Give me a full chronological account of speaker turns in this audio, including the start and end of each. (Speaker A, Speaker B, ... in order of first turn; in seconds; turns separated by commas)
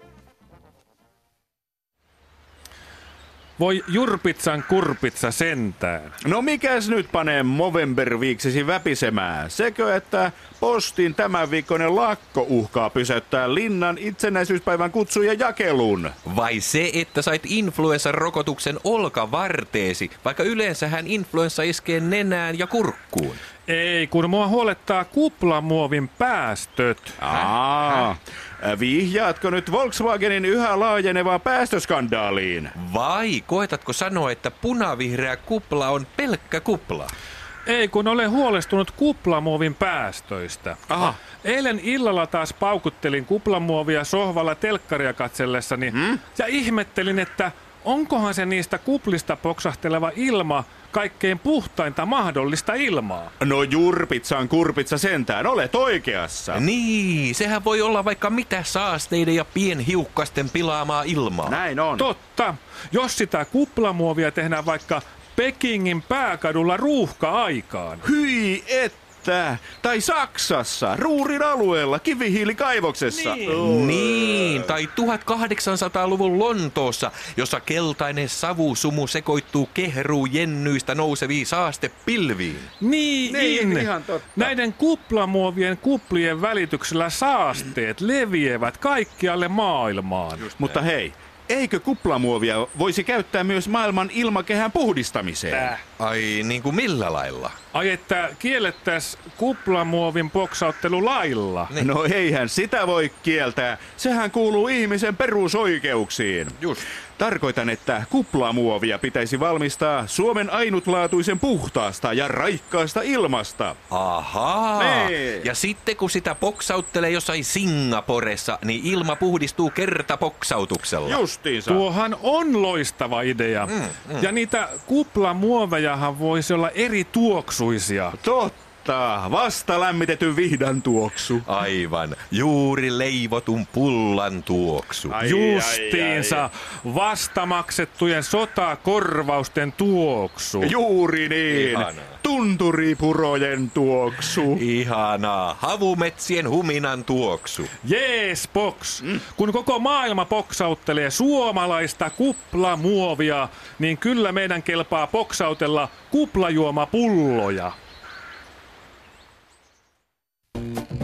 Speaker A: 3.6-6.2, Speaker B: 6.2-16.1, Speaker C: 16.2-23.4, Speaker A: 23.7-27.2, Speaker B: 27.2-32.7, Speaker C: 27.3-28.0, Speaker C: 32.8-37.1, Speaker A: 37.6-53.3, Speaker B: 40.9-41.1, Speaker B: 53.4-56.6, Speaker C: 56.5-61.6, Speaker B: 61.4-62.1, Speaker A: 62.0-68.0, Speaker B: 68.0-74.7, Speaker A: 73.1-73.6, Speaker C: 73.5-82.7, Speaker A: 82.8-90.5, Speaker B: 83.2-84.5, Speaker C: 90.5-90.8, Speaker B: 90.6-95.7, Speaker A: 95.5-95.8, Speaker C: 96.0-97.5, Speaker A: 97.7-101.7, Speaker B: 101.8-106.6, Speaker C: 106.6-106.8, Speaker B: 107.2-113.8, Speaker C: 113.9-121.2, Speaker B: 114.8-115.5, Speaker B: 121.0-121.8, Speaker A: 121.7-128.2, Speaker C: 123.7-124.3, Speaker B: 128.2-131.5, Speaker C: 131.4-135.2, Speaker B: 135.1-136.4, Speaker A: 135.2-140.7, Speaker B: 140.6-144.6, Speaker C: 141.5-142.2, Speaker C: 144.5-147.7, Speaker A: 147.8-157.7